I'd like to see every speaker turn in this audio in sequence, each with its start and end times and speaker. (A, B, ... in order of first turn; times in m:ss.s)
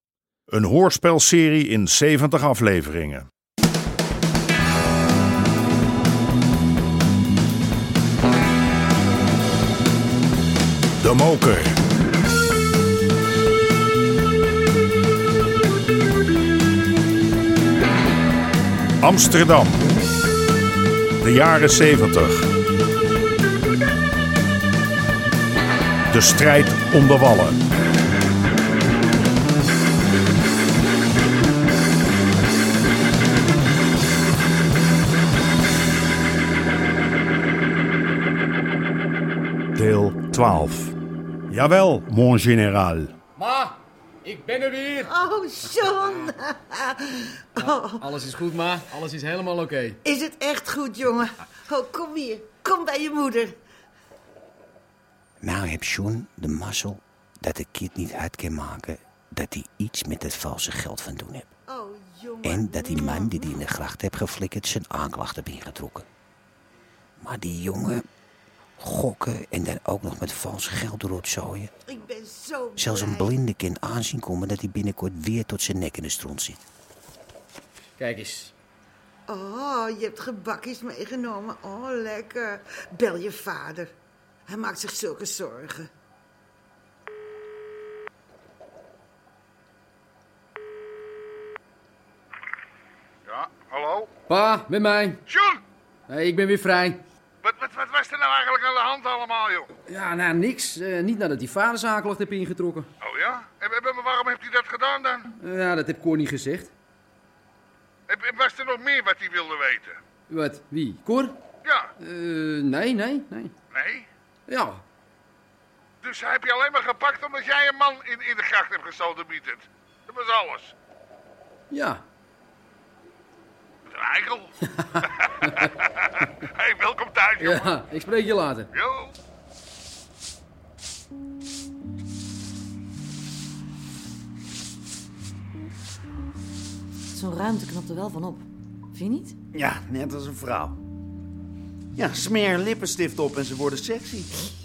0:00.5-0:03.3 A
0:11.0-0:11.7 A
0:19.0-0:19.8 A
0:21.2-0:22.5 A
0:26.1-0:27.6 A
0:39.8-0:41.0 A
0:41.5-0:43.1 A
0:43.4-0:45.1 B
0:45.0-0:48.1 C
0:47.6-0:50.0 B
0:50.1-0:53.5 C
0:55.4-1:01.5 D
1:01.7-1:03.6 C
1:02.4-1:06.1 D
1:07.2-1:08.0 D
1:08.8-1:11.7 D
1:11.9-1:13.3 C
1:12.8-1:16.6 D
1:18.0-1:18.5 B
1:19.3-1:23.9 C
1:24.5-1:25.9 C
1:33.3-1:34.1 E
1:34.3-1:35.2 B
1:35.3-1:35.6 E
1:36.1-1:37.0 B
1:37.4-1:39.7 E
1:39.9-1:42.9 B
1:43.0-1:45.3 E
1:45.4-1:46.7 B
1:48.1-1:50.0 E
1:50.3-1:51.4 B
1:51.6-1:51.9 E
1:52.0-1:53.5 B
1:53.7-1:54.1 E
1:54.5-1:54.8 B
1:56.0-2:00.7 E
2:01.7-2:02.0 B
2:03.9-2:04.5 E
2:04.7-2:05.0 B
2:05.2-2:07.8 E
2:07.4-2:08.7 B
2:08.7-2:09.1 E
2:17.1-2:19.4 F
2:19.5-2:20.8 G
2:22.0-2:24.5 G